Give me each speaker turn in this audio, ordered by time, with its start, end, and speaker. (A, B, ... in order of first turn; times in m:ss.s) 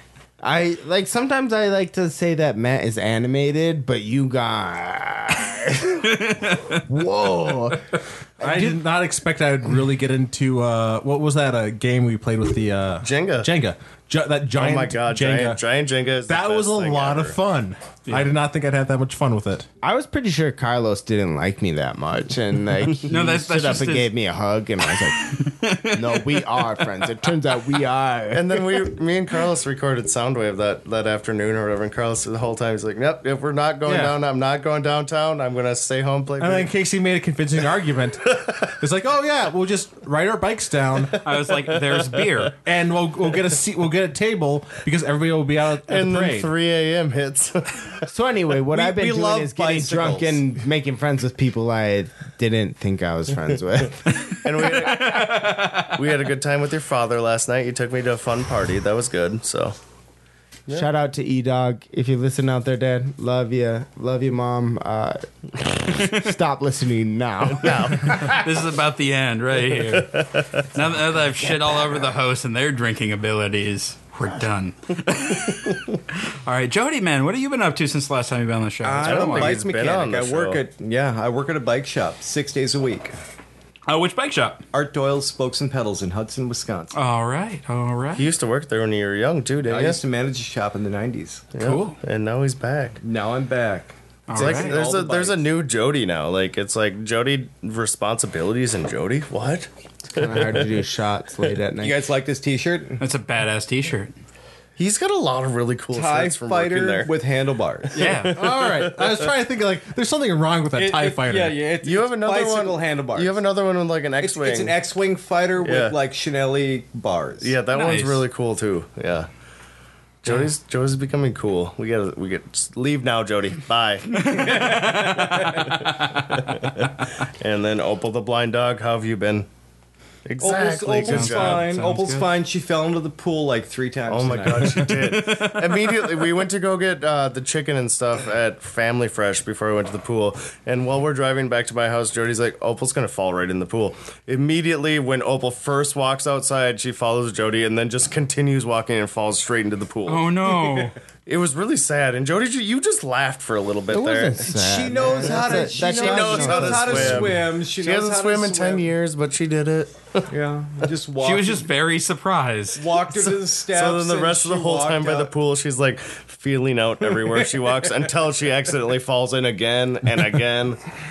0:00.4-0:08.8 A
0:06.0-0:06.8 B
0:08.4-0:15.6 C
0:13.0-0:13.5 D
0:14.6-0:17.4 D
0:16.3-0:19.6 C
0:19.8-0:28.9 A
0:23.1-0:24.1 B
0:25.2-0:26.8 B
0:28.3-0:36.7 D
0:33.8-0:34.2 C
0:36.4-0:41.2 C
0:41.2-0:42.6 B
0:41.8-0:42.2 D
0:42.6-0:46.5 C
0:45.9-0:48.1 D
0:48.1-0:54.0 A
0:48.7-0:50.4 E
0:54.1-0:56.0 B
0:54.3-0:59.7 D
1:00.7-1:08.4 A
1:07.4-1:08.5 D
1:08.1-1:19.6 B
1:09.8-1:10.8 D
1:18.8-1:23.1 E
1:19.0-1:20.6 D
1:23.9-1:24.6 B
1:24.7-1:27.0 E
1:26.9-1:28.2 B
1:28.2-1:30.0 D
1:29.7-1:31.4 E
1:31.5-1:33.0 D
1:31.6-1:32.0 B
1:33.0-1:35.4 E
1:34.3-1:34.7 B
1:34.3-1:40.9 D
1:40.1-1:42.0 A
1:41.8-1:43.0 E
1:43.0-1:44.1 B
1:44.8-1:47.1 D
1:45.9-1:48.2 E
1:48.0-1:48.4 B
1:48.0-1:49.3 D
1:48.3-1:51.6 C
1:50.7-1:53.4 E
1:51.8-1:54.8 D
1:54.2-1:57.5 E
1:55.6-1:55.9 D
1:57.4-1:59.3 D
1:57.7-1:58.2 B
2:00.2-2:04.1 D
2:04.1-2:06.9 B
2:04.1-2:05.7 E
2:06.4-2:06.8 D
2:07.4-2:09.5 D
2:10.2-2:11.7 D
2:10.4-2:14.9 E
2:10.9-2:12.3 B
2:14.1-2:30.3 D
2:14.6-2:16.1 B
2:30.1-2:31.0 B
2:31.2-2:40.2 D
2:33.9-2:37.4 A
2:34.4-2:38.9 E
2:40.3-2:41.6 E
2:41.2-2:42.9 B
2:42.8-2:45.3 E
2:43.7-2:50.8 D